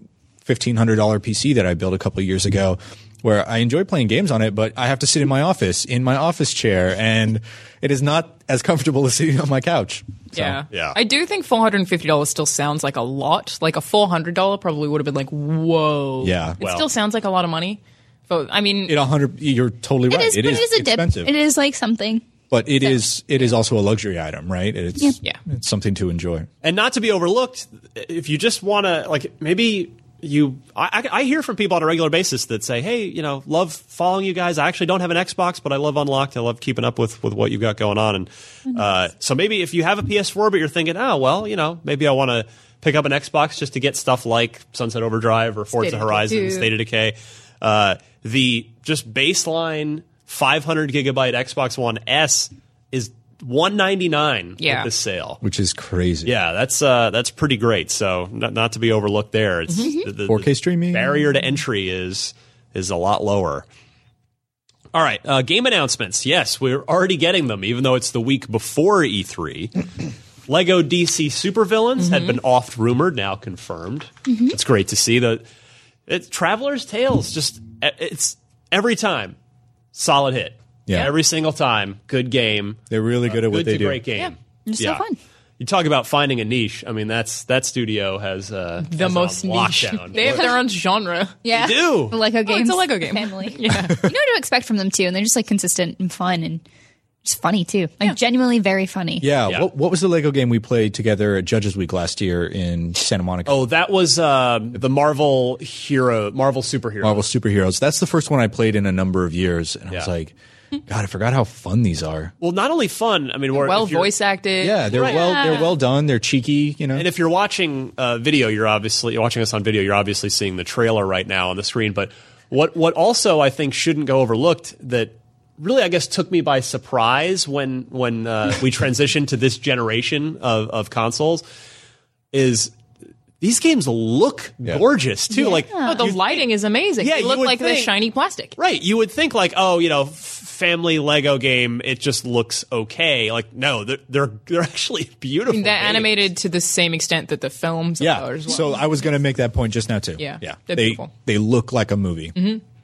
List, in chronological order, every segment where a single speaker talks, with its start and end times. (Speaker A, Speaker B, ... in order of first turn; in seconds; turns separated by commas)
Speaker A: 0.4-10.6, Speaker B: 10.3-19.0, Speaker C: 10.7-11.0, Speaker A: 16.2-16.6, Speaker C: 16.6-16.9, Speaker A: 18.9-21.3, Speaker D: 20.1-22.3, Speaker A: 22.5-26.5, Speaker C: 26.6-55.4, Speaker B: 45.8-46.7, Speaker B: 54.6-54.9, Speaker A: 55.4-56.3, Speaker C: 56.2-63.6, Speaker D: 59.8-60.1, Speaker A: 60.2-61.2, Speaker C: 64.9-69.7, Speaker C: 70.5-75.4, Speaker B: 72.0-72.4, Speaker D: 74.3-74.5, Speaker C: 76.1-79.4, Speaker C: 79.9-85.0, Speaker A: 82.9-84.0, Speaker D: 84.7-85.2, Speaker C: 85.6-90.4, Speaker B: 88.8-91.4, Speaker D: 90.2-90.5, Speaker D: 91.4-96.6, Speaker C: 91.5-92.2, Speaker B: 92.4-94.0, Speaker A: 93.7-94.1, Speaker D: 97.2-99.3, Speaker A: 99.2-103.7, Speaker C: 103.5-107.2, Speaker A: 107.0-110.3, Speaker A: 110.9-112.3, Speaker C: 112.4-114.1, Speaker B: 113.5-115.0, Speaker A: 114.6-117.1, Speaker C: 114.9-115.5, Speaker D: 115.1-115.6, Speaker C: 116.9-131.4, Speaker C: 132.3-132.7, Speaker C: 133.4-136.4, Speaker D: 135.3-136.0, Speaker B: 135.8-138.5, Speaker C: 137.0-137.9, Speaker C: 138.6-146.2, Speaker B: 145.5-148.8, Speaker A: 148.0-152.4, Speaker B: 150.2-151.1, Speaker B: 152.4-152.6